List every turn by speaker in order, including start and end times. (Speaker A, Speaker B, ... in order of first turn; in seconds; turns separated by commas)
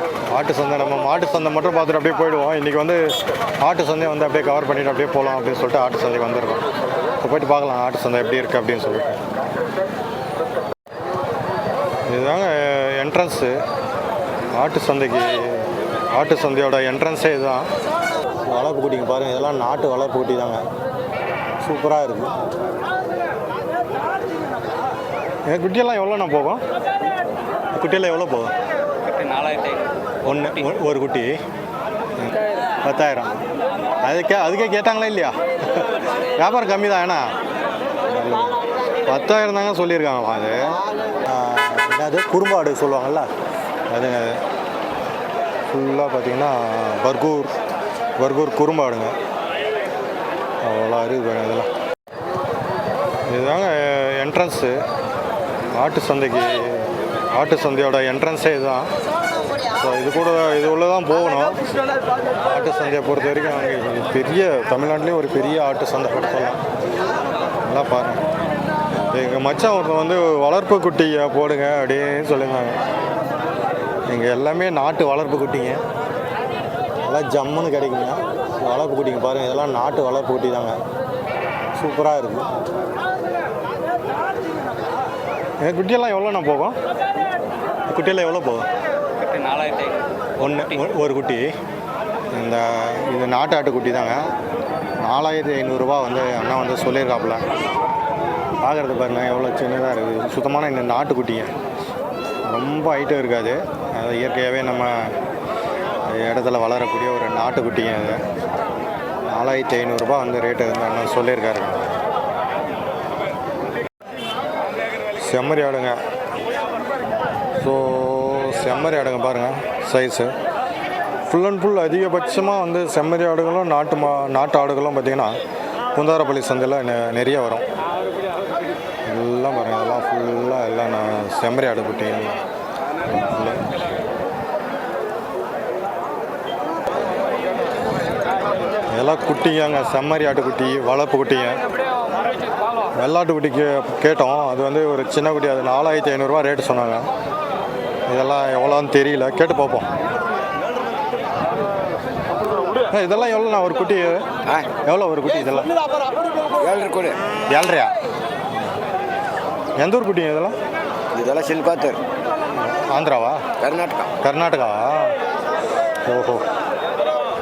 Speaker A: 0.3-6.6, Speaker A: 7.2-9.2, Speaker A: 12.1-13.6, Speaker A: 14.5-17.7, Speaker A: 18.5-20.6, Speaker A: 21.6-22.4, Speaker A: 25.5-26.6, Speaker A: 27.7-28.5, Speaker B: 29.0-30.8, Speaker A: 30.2-31.4, Speaker A: 32.2-33.4, Speaker A: 34.0-37.3, Speaker A: 38.1-43.3, Speaker A: 43.9-44.4, Speaker A: 45.7-47.5, Speaker A: 48.2-49.1, Speaker A: 50.6-51.7, Speaker A: 53.2-54.8, Speaker A: 55.7-58.9, Speaker A: 59.7-61.6, Speaker A: 62.4-66.6, Speaker A: 67.7-68.2, Speaker A: 69.1-72.8, Speaker A: 74.1-75.8, Speaker A: 77.0-80.8, Speaker A: 81.8-82.5, Speaker A: 85.6-86.8, Speaker A: 87.9-88.7, Speaker B: 89.2-90.9, Speaker A: 90.4-91.5, Speaker A: 92.3-94.3, Speaker A: 95.0-97.5, Speaker A: 98.6-101.5, Speaker A: 102.4-105.2, Speaker A: 106.1-108.2, Speaker A: 109.2-112.0, Speaker A: 115.2-116.0, Speaker A: 117.6-120.3, Speaker A: 121.3-125.4, Speaker A: 125.9-127.7, Speaker A: 129.1-132.4, Speaker A: 133.1-133.7, Speaker A: 138.9-141.6, Speaker A: 143.0-147.1, Speaker A: 148.1-149.9, Speaker A: 152.9-155.7, Speaker C: 156.6-157.2, Speaker A: 157.5-157.9, Speaker A: 159.8-160.6, Speaker C: 161.1-162.0, Speaker A: 162.5-163.5, Speaker C: 163.6-164.1, Speaker A: 164.2-165.2, Speaker A: 166.1-166.4